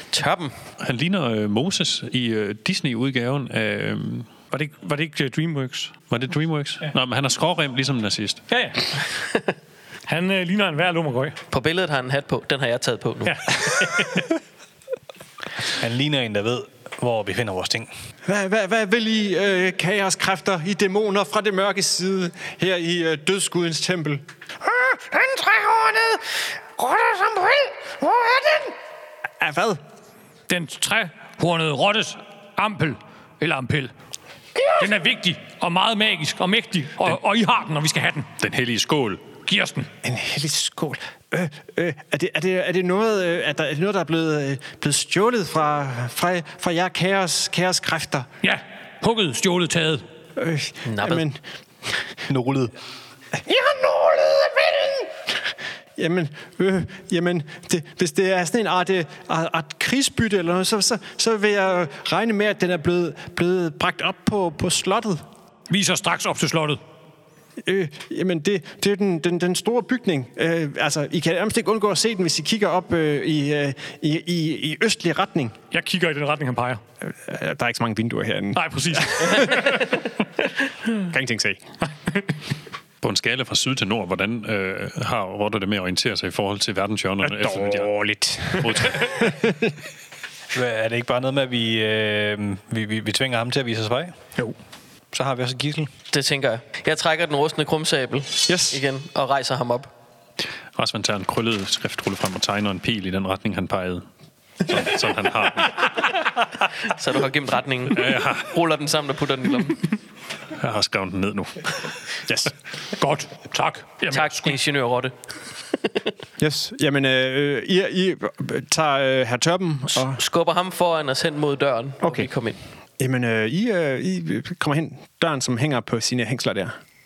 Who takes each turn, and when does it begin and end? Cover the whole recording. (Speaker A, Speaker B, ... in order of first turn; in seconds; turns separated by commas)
Speaker A: 0.1-0.5, Speaker B: 0.8-4.3, Speaker C: 4.5-5.9, Speaker B: 6.1-8.4, Speaker C: 8.5-8.9, Speaker C: 10.1-11.4, Speaker A: 11.5-13.4, Speaker C: 13.2-14.3, Speaker D: 15.7-17.9, Speaker E: 18.2-24.2, Speaker F: 24.6-28.7, Speaker E: 29.4-29.8, Speaker C: 30.5-33.9, Speaker C: 34.8-38.3, Speaker B: 38.4-39.2, Speaker C: 39.4-39.9, Speaker E: 40.0-48.3, Speaker C: 48.4-50.0, Speaker E: 50.4-51.9, Speaker A: 50.8-51.2, Speaker D: 52.3-52.7, Speaker F: 53.5-55.0, Speaker E: 56.0-65.2, Speaker C: 65.7-66.8, Speaker E: 67.6-75.6, Speaker C: 75.7-76.8, Speaker E: 77.0-79.8, Speaker C: 78.5-79.9, Speaker E: 81.0-81.6, Speaker B: 83.0-87.9, Speaker E: 87.2-89.8, Speaker B: 88.6-89.3, Speaker D: 90.5-94.2, Speaker D: 95.1-95.9, Speaker A: 96.1-99.9, Speaker E: 98.5-98.8, Speaker B: 100.7-104.0, Speaker B: 104.6-106.0, Speaker A: 106.8-109.8, Speaker B: 107.9-108.5, Speaker B: 110.5-112.0, Speaker E: 112.3-112.5, Speaker C: 113.0-114.6, Speaker A: 114.1-115.1, Speaker E: 116.4-120.2, Speaker A: 120.0-122.6, Speaker E: 122.0-122.3, Speaker E: 123.0-126.7